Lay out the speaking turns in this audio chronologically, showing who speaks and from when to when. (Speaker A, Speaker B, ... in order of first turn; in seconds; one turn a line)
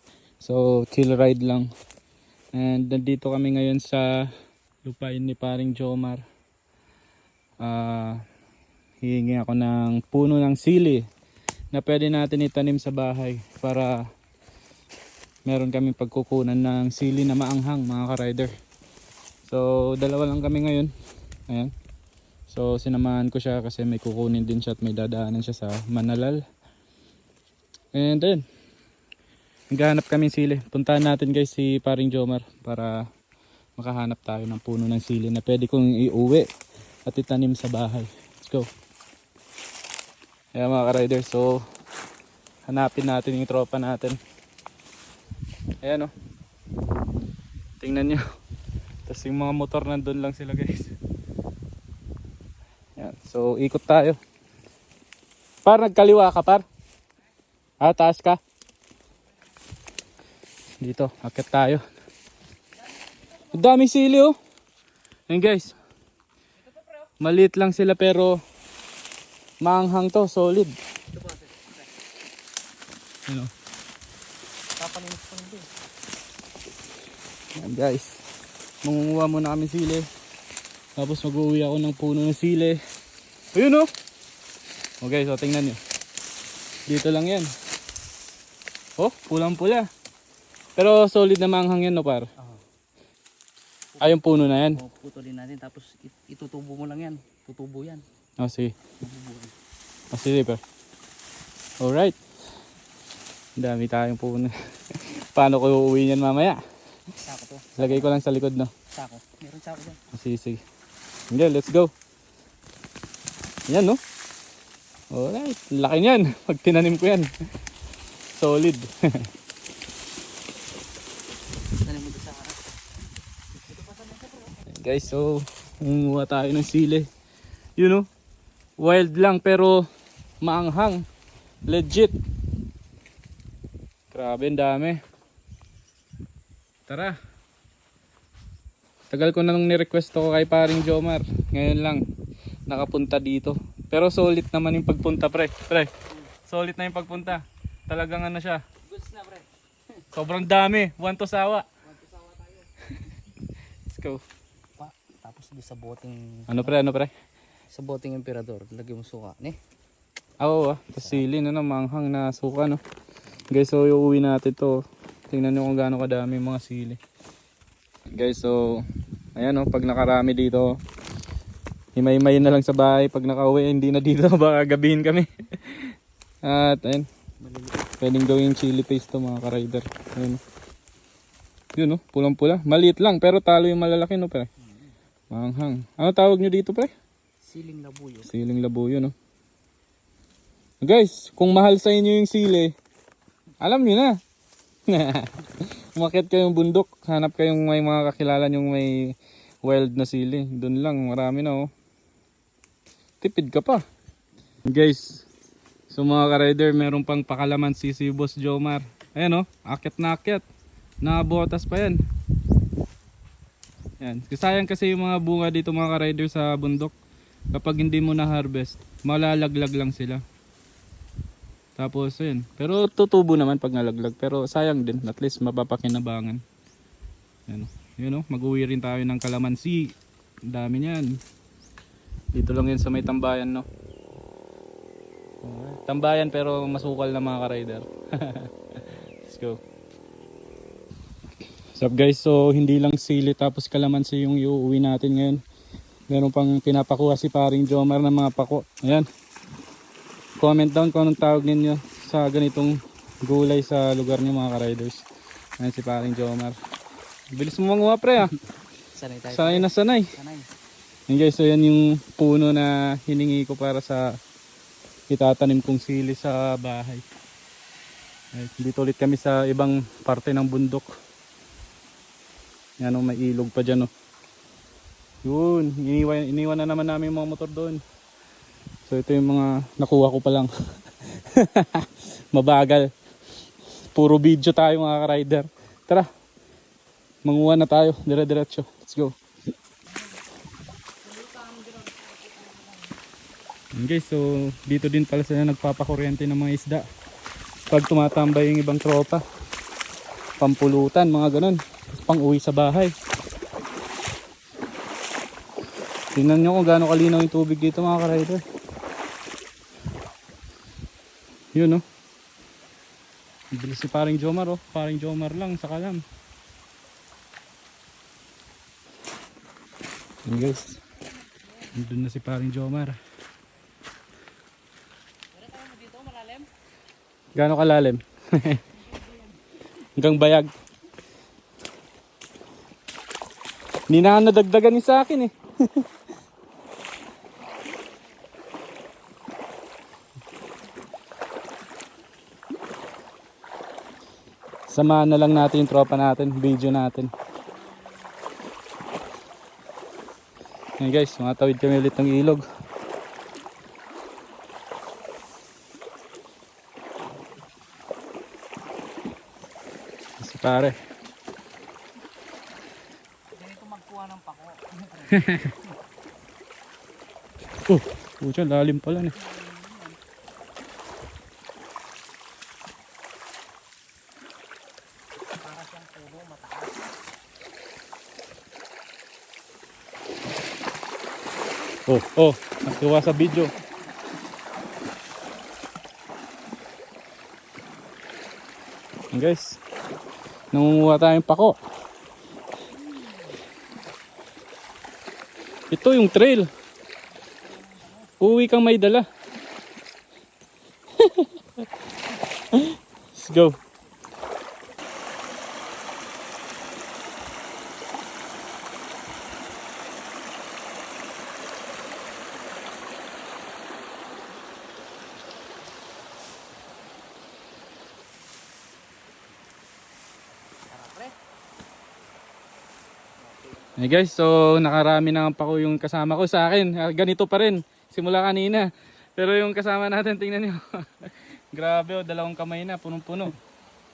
Speaker A: 0.4-1.7
Speaker A: 2.5-4.3
Speaker A: 4.8-6.2
Speaker A: 7.6-8.2
Speaker A: 9.0-11.0
Speaker A: 11.7-14.0
Speaker A: 15.4-18.5
Speaker A: 19.4-20.9
Speaker A: 22.5-26.4
Speaker A: 27.9-28.4
Speaker A: 29.7-33.0
Speaker A: 33.8-36.5
Speaker A: 37.0-38.7
Speaker A: 40.5-41.6
Speaker A: 42.7-44.2
Speaker A: 45.8-46.1
Speaker A: 47.8-48.2
Speaker A: 49.0-50.9
Speaker A: 53.0-54.2
Speaker A: 55.6-56.6
Speaker A: 57.8-58.4
Speaker A: 60.8-61.8
Speaker A: 63.5-64.3
Speaker A: 65.3-65.7
Speaker A: 67.2-68.4
Speaker A: 69.6-70.8
Speaker B: 71.1-71.8
Speaker B: 74.8-75.7
Speaker A: 77.5-78.2
Speaker A: 78.8-80.1
Speaker A: 81.0-82.8
Speaker A: 83.5-83.9
Speaker A: 85.0-85.8
Speaker A: 86.9-87.5
Speaker A: 89.0-89.9
Speaker A: 90.8-92.3
Speaker A: 94.0-94.8
Speaker B: 94.7-98.0
Speaker A: 98.4-98.7
Speaker B: 99.0-99.5
Speaker A: 100.1-100.6
Speaker A: 101.8-102.2
Speaker A: 103.6-106.6
Speaker B: 107.2-108.1
Speaker A: 107.8-108.7
Speaker B: 108.9-110.0
Speaker A: 110.1-110.6
Speaker A: 111.3-111.9
Speaker A: 113.7-114.0
Speaker A: 115.1-117.3
Speaker A: 118.3-119.3
Speaker B: 121.8-122.6
Speaker B: 123.7-124.6
Speaker A: 124.7-127.1
Speaker A: 127.8-128.1
Speaker A: 128.8-129.8
Speaker A: 130.4-131.0
Speaker A: 131.7-132.1
Speaker A: 134.1-135.0
Speaker A: 136.9-137.2
Speaker A: 139.1-142.0
Speaker A: 142.7-145.9
Speaker A: 146.5-148.6
Speaker B: 148.9-149.4
Speaker A: 150.1-151.7
Speaker B: 151.9-152.7
Speaker A: 153.9-154.2
Speaker B: 154.8-156.7
Speaker A: 156.5-157.1
Speaker B: 157.7-159.6
Speaker A: 160.4-162.8
Speaker B: 160.9-161.2
Speaker A: 163.5-167.0
Speaker A: 168.1-168.8
Speaker A: 169.3-170.8
Speaker A: 171.9-177.1
Speaker B: 177.4-177.8
Speaker A: 178.0-180.4
Speaker A: 181.8-184.5
Speaker A: 185.3-186.9
Speaker B: 187.4-188.3
Speaker A: 188.2-189.1
Speaker A: 190.8-192.7
Speaker A: 193.6-194.2
Speaker A: 194.9-201.7
Speaker A: 203.2-203.8
Speaker A: 204.6-205.2
Speaker A: 205.9-210.4
Speaker A: 211.0-212.0
Speaker A: 214.0-216.9
Speaker A: 217.5-220.2
Speaker A: 221.8-226.4
Speaker A: 227.5-231.2
Speaker A: 232.3-233.7
Speaker A: 235.4-239.6
Speaker A: 241.8-245.4
Speaker A: 246.1-249.1
Speaker A: 250.4-255.0
Speaker A: 255.6-256.6
Speaker A: 257.3-258.4
Speaker B: 258.9-260.5
Speaker A: 259.3-260.1
Speaker A: 261.1-264.2
Speaker A: 265.1-267.0
Speaker A: 268.3-270.9
Speaker A: 272.8-273.9
Speaker A: 275.2-277.8
Speaker A: 278.9-280.5
Speaker A: 281.0-282.9
Speaker A: 283.9-286.1
Speaker A: 287.2-289.1
Speaker B: 291.0-292.9
Speaker A: 293.7-296.9
Speaker A: 297.7-299.2
Speaker A: 300.4-302.9
Speaker A: 306.1-308.4
Speaker A: 311.5-311.8
Speaker A: 313.5-316.0
Speaker A: 320.2-320.8
Speaker A: 321.7-323.0
Speaker B: 325.3-326.5
Speaker A: 327.3-328.6
Speaker B: 328.9-329.2
Speaker A: 330.0-330.5
Speaker A: 333.9-335.9
Speaker A: 344.7-347.1
Speaker A: 350.8-352.4
Speaker A: 360.2-360.7
Speaker B: 363.4-365.5
Speaker A: 365.1-365.5
Speaker A: 367.7-369.1
Speaker B: 369.1-370.0
Speaker B: 375.4-376.9
Speaker A: 381.9-383.5
Speaker A: 389.1-389.6
Speaker A: 390.5-391.6
Speaker A: 395.7-396.5
Speaker B: 397.5-398.0
Speaker A: 398.2-399.0
Speaker A: 401.0-401.4
Speaker A: 402.5-403.6
Speaker B: 420.7-421.1
Speaker B: 423.3-423.6
Speaker A: 423.8-433.4